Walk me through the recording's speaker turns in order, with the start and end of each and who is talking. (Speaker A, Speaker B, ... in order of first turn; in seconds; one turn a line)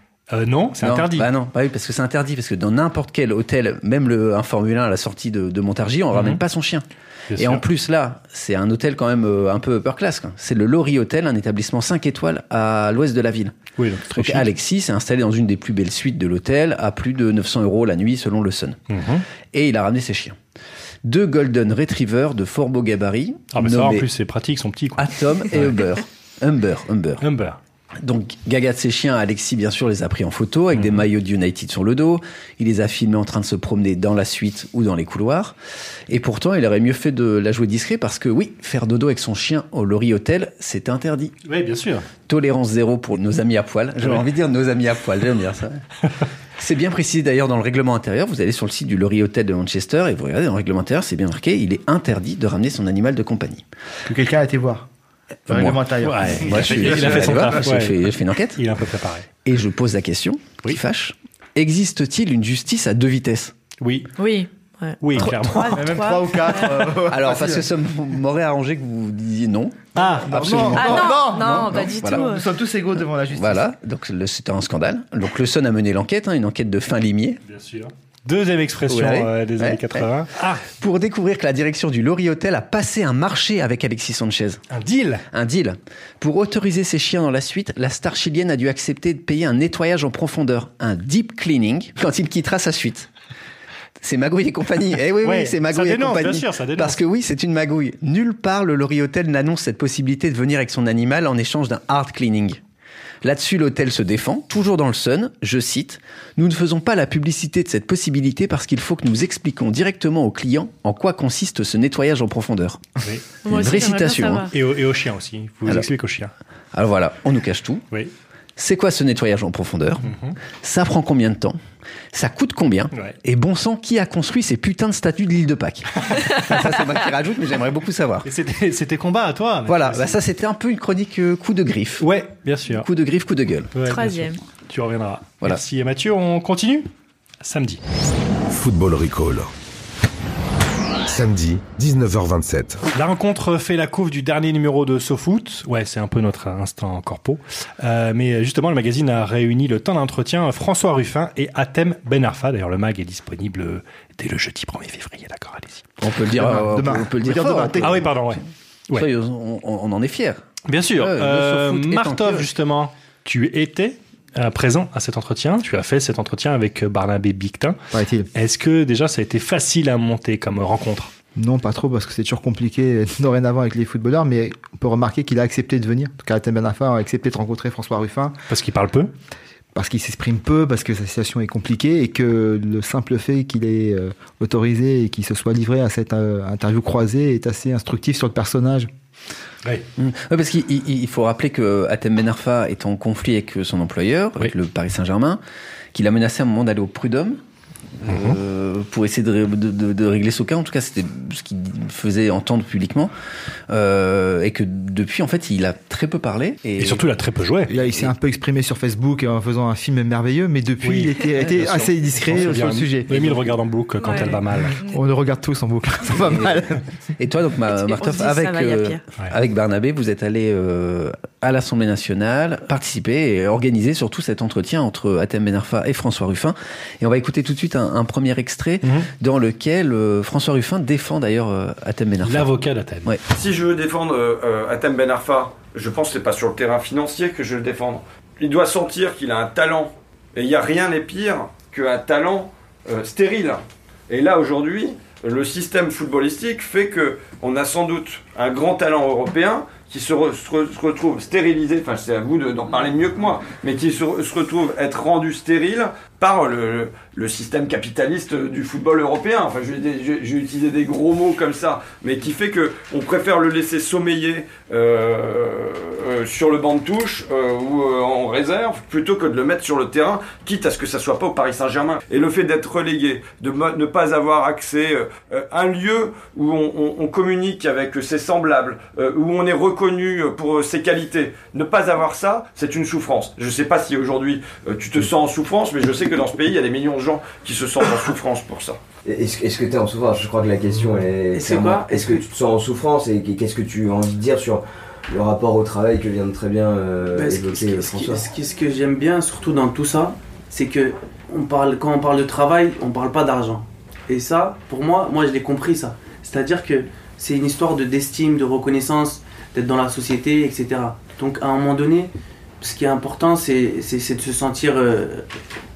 Speaker A: 0.3-1.3
Speaker B: 0.8-6.8
Speaker A: 6.1-6.4
Speaker A: 7.3-7.6
Speaker B: 7.3-13.6
Speaker A: 13.8-14.5
Speaker B: 14.1-18.8
Speaker A: 18.9-19.3
Speaker B: 19.5-20.4
Speaker B: 21.1-24.1
Speaker A: 23.5-25.9
Speaker B: 25.0-27.2
Speaker A: 27.2-27.6
Speaker B: 28.0-35.6
Speaker A: 30.7-31.1
Speaker B: 36.1-41.3
Speaker A: 41.5-42.1
Speaker B: 42.3-45.8
Speaker B: 46.6-53.6
Speaker C: 54.1-54.9
Speaker C: 55.5-57.6
Speaker B: 55.5-58.6
Speaker A: 56.0-59.3
Speaker B: 59.4-63.5
Speaker A: 63.8-64.1
Speaker D: 64.2-66.9
Speaker A: 65.0-66.1
Speaker C: 65.7-67.7
Speaker B: 67.1-72.3
Speaker A: 70.0-70.9
Speaker C: 70.2-73.7
Speaker D: 70.7-72.5
Speaker B: 73.3-77.4
Speaker A: 77.5-80.7
Speaker B: 78.9-80.1
Speaker B: 80.7-84.6
Speaker A: 84.7-85.2
Speaker B: 85.3-93.1
Speaker B: 94.0-102.6
Speaker A: 95.2-97.0
Speaker B: 103.2-112.9
Speaker A: 113.0-113.3
Speaker D: 113.4-114.5
Speaker B: 113.5-114.5
Speaker A: 114.5-116.3
Speaker B: 116.7-117.8
Speaker B: 118.6-121.6
Speaker A: 120.0-120.4
Speaker B: 122.1-128.3
Speaker A: 128.2-130.2
Speaker B: 129.7-132.1
Speaker A: 132.0-132.9
Speaker B: 132.7-133.7
Speaker A: 133.7-136.9
Speaker D: 133.8-134.4
Speaker A: 137.4-137.8
Speaker E: 138.5-139.5
Speaker E: 141.1-142.8
Speaker A: 142.9-155.9
Speaker B: 156.0-158.1
Speaker C: 156.3-158.1
Speaker A: 157.8-159.1
Speaker B: 158.9-162.5
Speaker A: 160.7-167.8
Speaker C: 167.9-168.3
Speaker A: 168.3-171.1
Speaker C: 171.4-178.4
Speaker A: 178.5-179.1
Speaker C: 179.8-188.9
Speaker B: 190.0-195.4
Speaker B: 195.9-197.4
Speaker B: 198.0-203.1
Speaker A: 198.1-198.4
Speaker B: 203.7-207.1
Speaker A: 206.8-207.7
Speaker C: 207.7-213.4
Speaker B: 207.9-208.1
Speaker A: 210.8-214.8
Speaker D: 214.0-214.9
Speaker C: 214.8-216.9
Speaker B: 217.2-232.5
Speaker D: 217.7-219.0
Speaker A: 228.8-229.1
Speaker A: 232.2-233.1
Speaker F: 233.3-288.8
Speaker G: 289.0-298.3
Speaker H: 291.3-292.2
Speaker H: 297.1-315.3